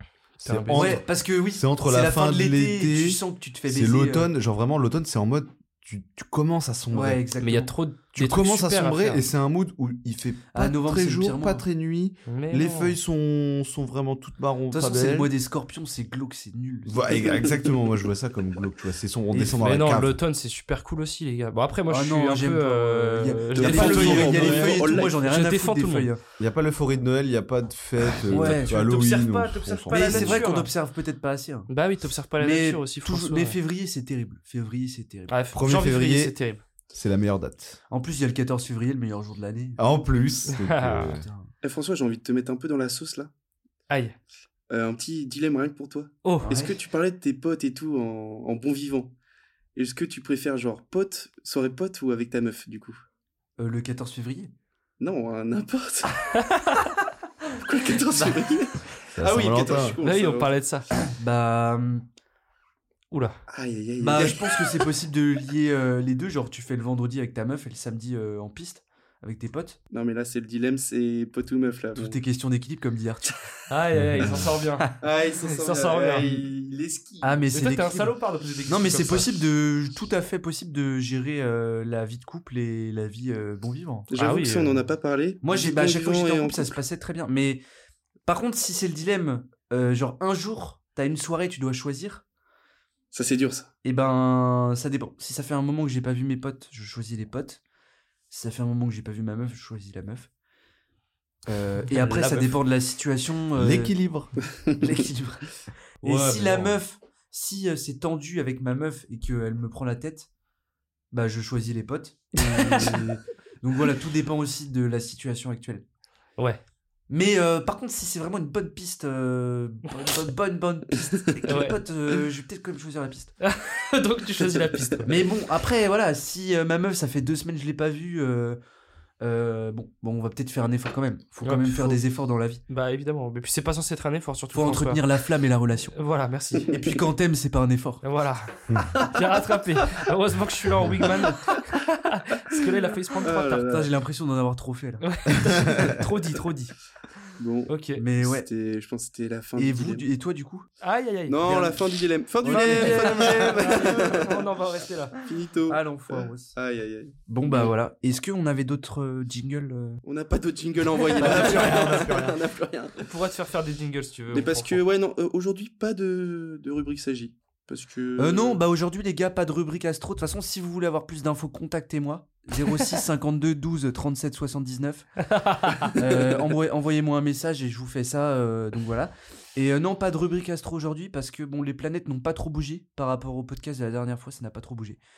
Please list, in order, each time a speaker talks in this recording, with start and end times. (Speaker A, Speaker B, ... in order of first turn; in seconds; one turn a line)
Speaker A: 0.4-7.2
Speaker B: 0.4-1.0
Speaker C: 0.7-4.3
Speaker C: 6.9-7.7
Speaker B: 7.4-9.3
Speaker A: 8.2-15.3
Speaker C: 10.5-11.7
Speaker B: 12.3-13.0
Speaker C: 14.7-17.5
Speaker A: 16.9-20.2
Speaker C: 19.3-19.6
Speaker B: 19.6-26.1
Speaker C: 21.9-26.2
Speaker D: 23.6-25.2
Speaker A: 23.7-24.3
Speaker A: 26.4-30.4
Speaker B: 28.1-30.7
Speaker C: 28.2-28.8
Speaker C: 29.9-31.7
Speaker B: 31.7-33.6
Speaker C: 32.4-35.3
Speaker B: 35.3-36.6
Speaker A: 35.5-36.3
Speaker A: 36.9-37.8
Speaker C: 37.9-39.8
Speaker A: 39.8-41.3
Speaker B: 40.5-41.1
Speaker C: 41.1-41.5
Speaker D: 41.6-43.3
Speaker B: 43.9-44.2
Speaker D: 44.7-49.1
Speaker B: 46.2-46.5
Speaker C: 46.4-46.7
Speaker D: 49.8-53.0
Speaker C: 53.6-54.5
Speaker D: 55.0-56.2
Speaker B: 56.3-56.9
Speaker D: 57.5-60.5
Speaker A: 59.1-60.0
Speaker B: 60.0-60.9
Speaker C: 61.1-62.0
Speaker B: 63.1-63.4
Speaker D: 63.5-64.7
Speaker C: 64.0-69.8
Speaker D: 69.9-72.2
Speaker C: 72.0-73.3
Speaker B: 73.7-74.9
Speaker A: 74.0-74.3
Speaker D: 75.0-77.5
Speaker B: 75.4-76.4
Speaker C: 77.2-78.2
Speaker B: 77.5-79.4
Speaker C: 78.7-84.1
Speaker D: 84.1-86.8
Speaker B: 84.1-84.8
Speaker C: 85.4-87.6
Speaker C: 88.3-92.2
Speaker D: 93.1-93.7
Speaker C: 93.8-97.6
Speaker C: 98.3-100.3
Speaker C: 101.5-104.0
Speaker B: 101.9-102.6
Speaker A: 103.5-104.4
Speaker C: 104.8-110.3
Speaker B: 106.0-106.8
Speaker C: 111.1-115.8
Speaker B: 112.5-113.0
Speaker C: 117.1-123.3
Speaker B: 121.5-122.2
Speaker B: 123.4-125.3
Speaker C: 125.0-128.6
Speaker C: 129.2-132.6
Speaker B: 131.4-132.0
Speaker B: 132.7-135.0
Speaker C: 134.5-135.9
Speaker B: 135.9-136.7
Speaker C: 136.7-138.0
Speaker B: 138.0-143.8
Speaker A: 138.7-138.9
Speaker D: 143.2-143.9
Speaker C: 143.5-146.4
Speaker B: 145.0-146.7
Speaker A: 145.5-145.9
Speaker D: 147.4-150.1
Speaker B: 147.7-148.0
Speaker C: 147.9-148.5
Speaker C: 149.6-150.7
Speaker B: 150.8-151.6
Speaker D: 151.3-154.4
Speaker C: 151.4-151.8
Speaker A: 152.4-154.2
Speaker B: 152.4-155.2
Speaker C: 152.5-153.7
Speaker D: 155.2-157.7
Speaker C: 155.7-156.6
Speaker C: 157.3-160.0
Speaker D: 160.0-163.1
Speaker A: 161.2-162.4
Speaker C: 161.2-161.7
Speaker B: 161.3-162.0
Speaker B: 163.0-164.8
Speaker D: 164.3-168.6
Speaker C: 168.2-175.1
Speaker B: 175.3-175.9
Speaker C: 175.9-185.0